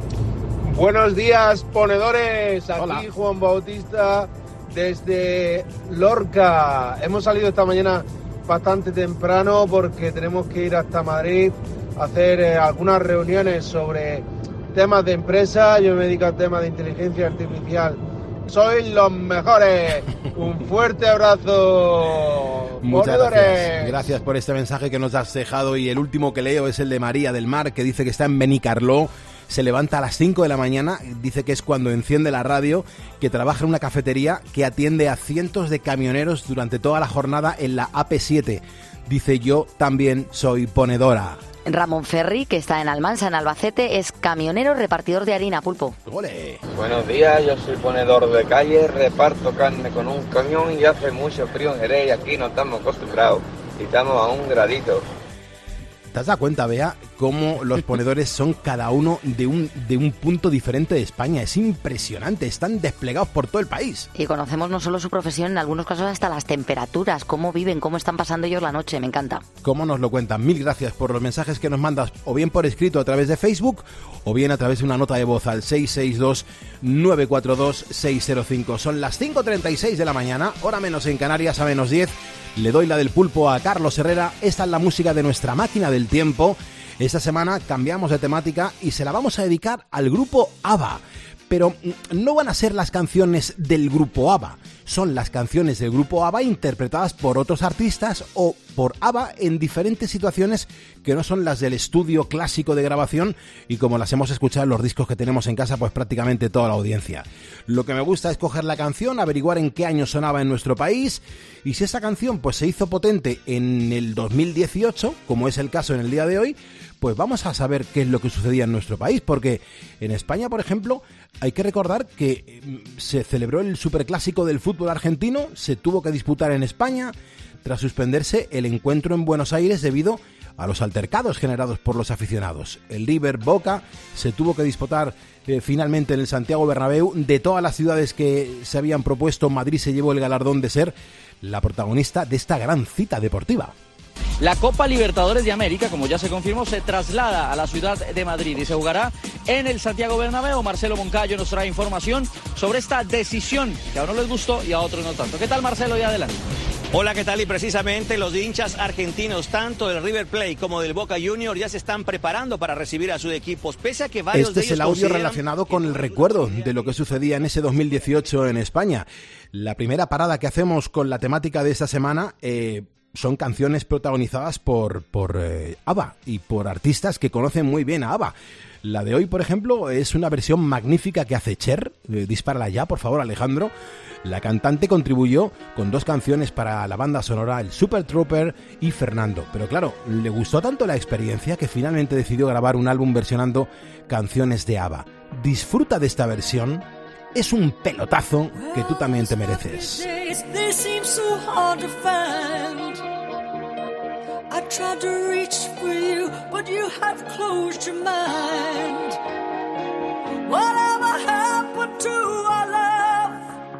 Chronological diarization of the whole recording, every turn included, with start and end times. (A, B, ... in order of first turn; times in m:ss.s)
0:00.6-0:24.0 A
0:02.7-0:03.0 B
0:22.8-0:41.4 B
0:41.6-0:46.0 C
0:46.0-0:46.6 B
0:46.8-0:54.9 D
0:56.1-1:04.1 B
1:04.2-1:09.4 C
1:09.6-2:23.7 B
2:24.4-2:36.3 E
2:36.9-2:46.8 F
2:44.3-3:03.7 B
3:04.2-3:20.1 B
3:18.5-3:23.0 G
3:24.5-3:29.2 G
3:30.4-3:33.4 G